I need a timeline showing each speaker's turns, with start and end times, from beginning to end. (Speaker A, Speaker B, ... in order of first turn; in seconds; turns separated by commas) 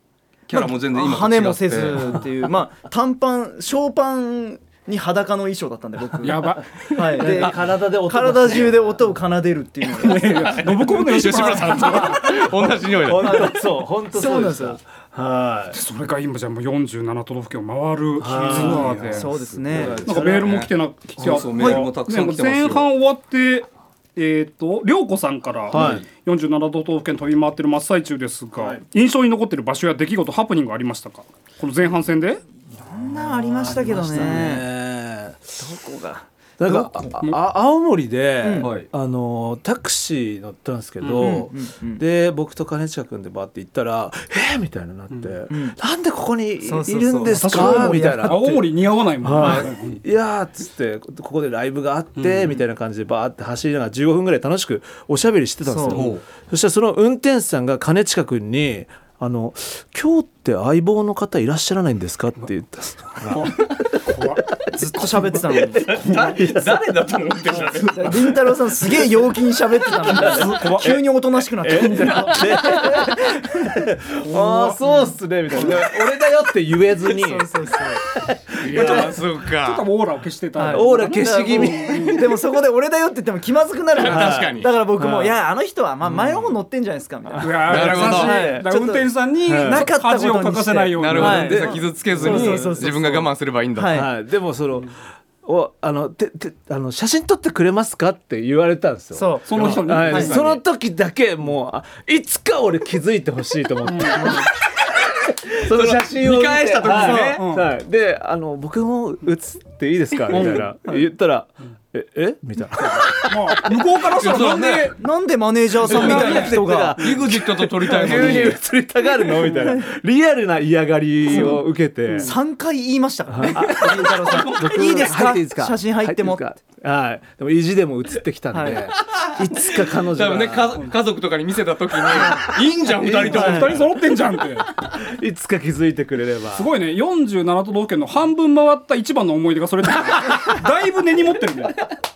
Speaker A: 0.5-2.1, Speaker B: 0.5-10.6, Speaker C: 6.2-7.3, Speaker D: 6.9-9.0, Speaker C: 10.0-12.4, Speaker A: 10.1-13.5, Speaker D: 11.9-15.8, Speaker B: 13.2-14.8, Speaker C: 15.7-19.3, Speaker D: 18.2-20.5, Speaker A: 18.5-22.9, Speaker B: 18.5-20.0, Speaker C: 20.0-32.4, Speaker D: 25.7-26.0, Speaker A: 25.7-26.0, Speaker D: 28.6-28.8, Speaker B: 32.8-34.6, Speaker D: 32.9-35.4, Speaker B: 35.6-37.2, Speaker D: 36.6-48.6, Speaker B: 38.4-38.7, Speaker A: 38.6-38.9, Speaker C: 41.0-41.4, Speaker B: 41.2-42.0, Speaker B: 45.5-45.8, Speaker B: 46.6-48.5, Speaker C: 47.2-50.0, Speaker D: 49.2-64.2, Speaker C: 52.2-52.6, Speaker B: 55.6-56.1, Speaker A: 55.9-56.2, Speaker C: 64.0-64.4, Speaker B: 64.7-66.4, Speaker D: 65.0-66.8, Speaker A: 65.7-68.3, Speaker B: 67.5-73.7, Speaker D: 70.0-79.2, Speaker C: 74.3-74.7, Speaker B: 74.3-75.8, Speaker A: 75.6-76.3, Speaker B: 77.0-78.0, Speaker A: 78.6-79.8, Speaker C: 78.7-82.2, Speaker B: 80.6-94.1, Speaker D: 80.7-82.4, Speaker A: 83.9-84.7, Speaker D: 84.0-85.4, Speaker D: 86.0-86.5, Speaker D: 87.3-88.1, Speaker C: 87.4-91.8, Speaker A: 87.7-88.5, Speaker D: 89.5-89.9, Speaker A: 91.0-94.1, Speaker D: 91.1-92.8, Speaker D: 93.9-113.8, Speaker B: 99.1-100.3, Speaker C: 99.5-100.6, Speaker C: 103.8-104.4, Speaker A: 105.6-107.4, Speaker B: 106.9-107.4, Speaker C: 107.3-107.7, Speaker C: 110.3-110.7, Speaker C: 112.8-115.0, Speaker A: 114.1-115.0, Speaker B: 114.8-117.0, Speaker A: 115.8-118.6, Speaker D: 115.8-122.3, Speaker C: 115.8-117.2, Speaker C: 118.2-118.5, Speaker B: 119.4-119.8, Speaker B: 121.3-121.6, Speaker C: 121.3-122.3, Speaker B: 122.2-126.5, Speaker D: 123.3-130.8, Speaker C: 124.3-125.1, Speaker B: 128.5-128.9, Speaker A: 129.1-133.8, Speaker D: 132.1-133.7, Speaker C: 133.2-134.7, Speaker B: 133.3-133.7, Speaker D: 134.9-136.7, Speaker C: 136.5-141.8